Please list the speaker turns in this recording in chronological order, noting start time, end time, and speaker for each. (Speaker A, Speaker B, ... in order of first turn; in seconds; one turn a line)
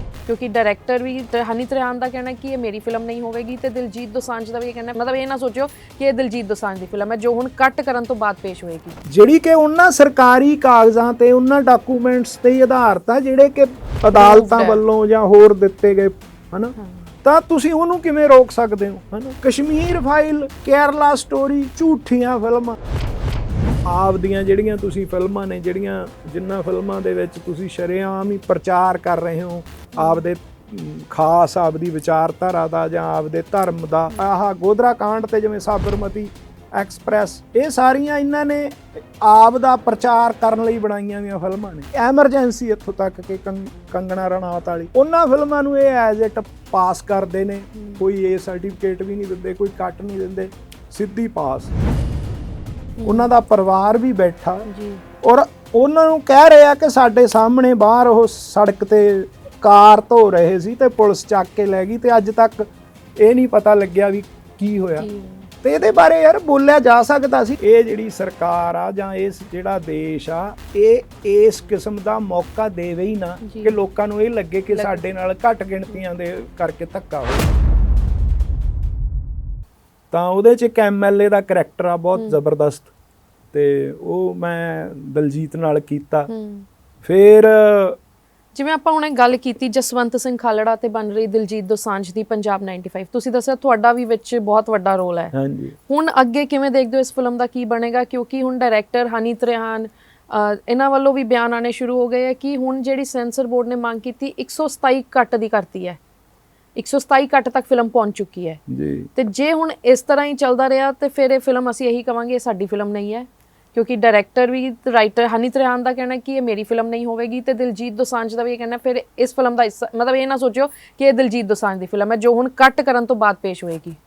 Speaker A: 0.3-9.0
Speaker B: 9.1-22.8
Speaker A: 14.2-14.8
Speaker A: 16.8-17.1
Speaker B: 23.9-51.7
Speaker A: 29.9-30.2
Speaker A: 47.8-48.0
Speaker A: 53.0-53.3
Speaker B: 53.0-54.7
Speaker A: 54.7-55.0
Speaker B: 55.2-62.7
Speaker B: 63.2-65.1
Speaker A: 65.0-65.5
Speaker B: 65.6-77.5
Speaker A: 73.5-73.8
Speaker A: 74.7-75.0
Speaker B: 80.1-82.9
Speaker B: 83.5-86.3
Speaker A: 86.3-86.7
Speaker B: 87.0-88.0
Speaker A: 88.5-95.3
Speaker B: 95.3-95.8
Speaker A: 95.9-106.0
Speaker A: 106.8-108.6
Speaker B: 108.7-109.1
Speaker A: 109.2-124.0